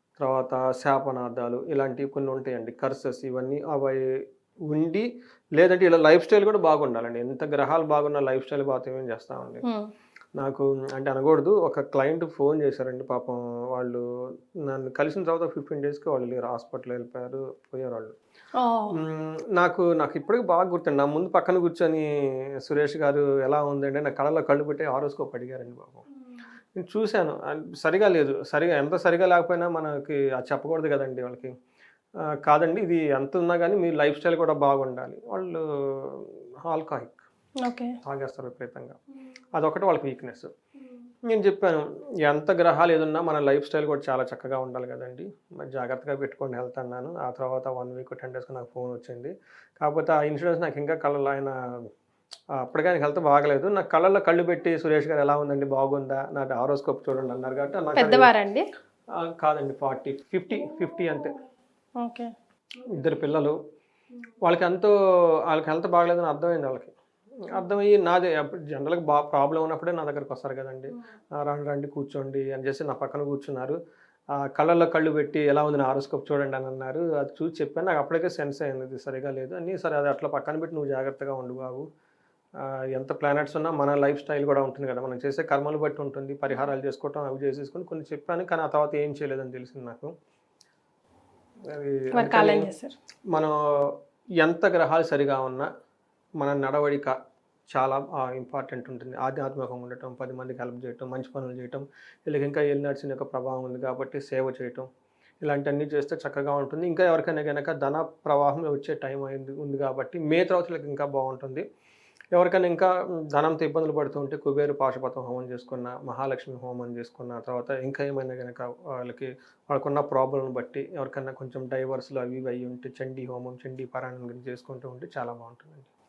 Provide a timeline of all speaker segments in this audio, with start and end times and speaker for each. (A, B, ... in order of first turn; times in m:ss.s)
0:00.2-0:04.1 A
0:04.7-0:09.6 A
0:09.6-0:09.9 B
0:10.4-0:14.0 A
0:14.6-0:18.1 A
0:18.6-0:19.0 B
0:18.9-0:26.0 A
0:26.8-0:31.5 A
0:32.2-0:37.2 A
0:37.6-0:37.9 B
0:38.0-0:39.0 A
0:39.6-0:40.5 A
0:41.3-0:51.9 A
0:52.6-0:58.3 A
0:58.0-0:58.6 B
0:59.1-1:01.4 A
1:02.0-1:02.3 B
1:02.9-1:03.6 A
1:04.4-1:04.9 A
1:05.5-1:06.9 A
1:07.4-1:13.8 A
1:14.4-1:21.9 A
1:22.6-1:30.1 A
1:31.7-1:32.7 A
1:32.1-1:32.9 B
1:33.3-1:35.7 A
1:36.4-1:37.1 A
1:37.7-1:44.9 A
1:45.4-1:51.6 A
1:52.3-2:05.9 A